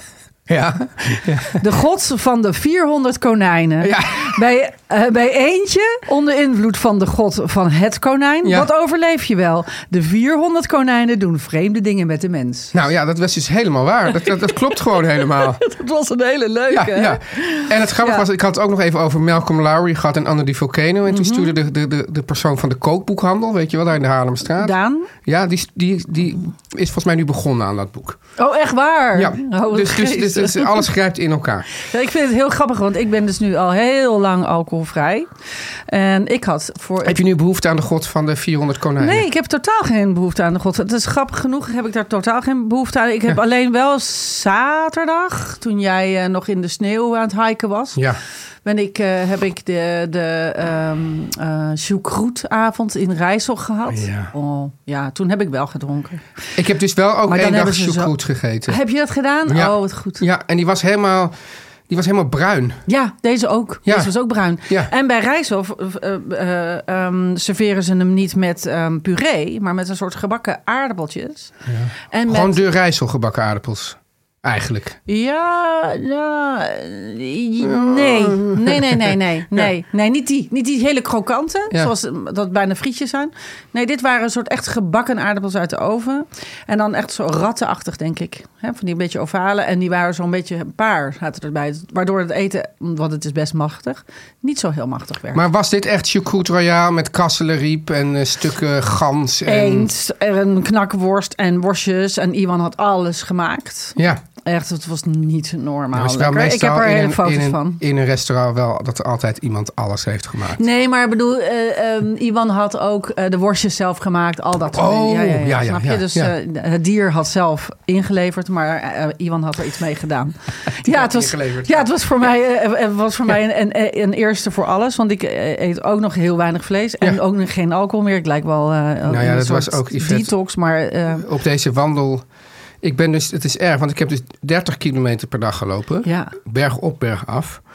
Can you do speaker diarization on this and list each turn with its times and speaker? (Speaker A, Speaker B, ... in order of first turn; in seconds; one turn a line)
Speaker A: 0.5-1.6
Speaker B: 1.6-12.7
Speaker A: 3.8-4.4
Speaker A: 12.7-15.6
Speaker B: 14.2-18.3
Speaker A: 16.7-28.2
Speaker B: 21.1-21.6
Speaker B: 24.6-25.1
Speaker B: 28.4-30.9
Speaker A: 29.1-31.7
Speaker B: 31.8-35.3
Speaker B: 35.9-37.2
Speaker A: 37.0-39.3
Speaker B: 39.0-48.0
Speaker B: 48.6-56.2
Speaker A: 53.9-54.3
Speaker A: 56.6-58.8
Speaker B: 57.3-58.1
Speaker B: 58.7-60.2
Speaker A: 59.5-61.3
Speaker A: 61.9-62.8
Speaker B: 62.9-71.5
Speaker A: 63.9-64.1
Speaker A: 71.7-75.0
Speaker B: 72.1-72.6
Speaker B: 75.1-95.4
Speaker A: 77.6-79.7
Speaker A: 95.3-99.9
Speaker B: 99.5-107.8
Speaker A: 105.9-110.6
Speaker B: 110.6-131.3
Speaker A: 114.7-116.3
Speaker A: 120.8-121.9
Speaker A: 129.1-130.3
Speaker A: 131.2-132.2
Speaker A: 132.8-137.6
Speaker B: 136.1-136.3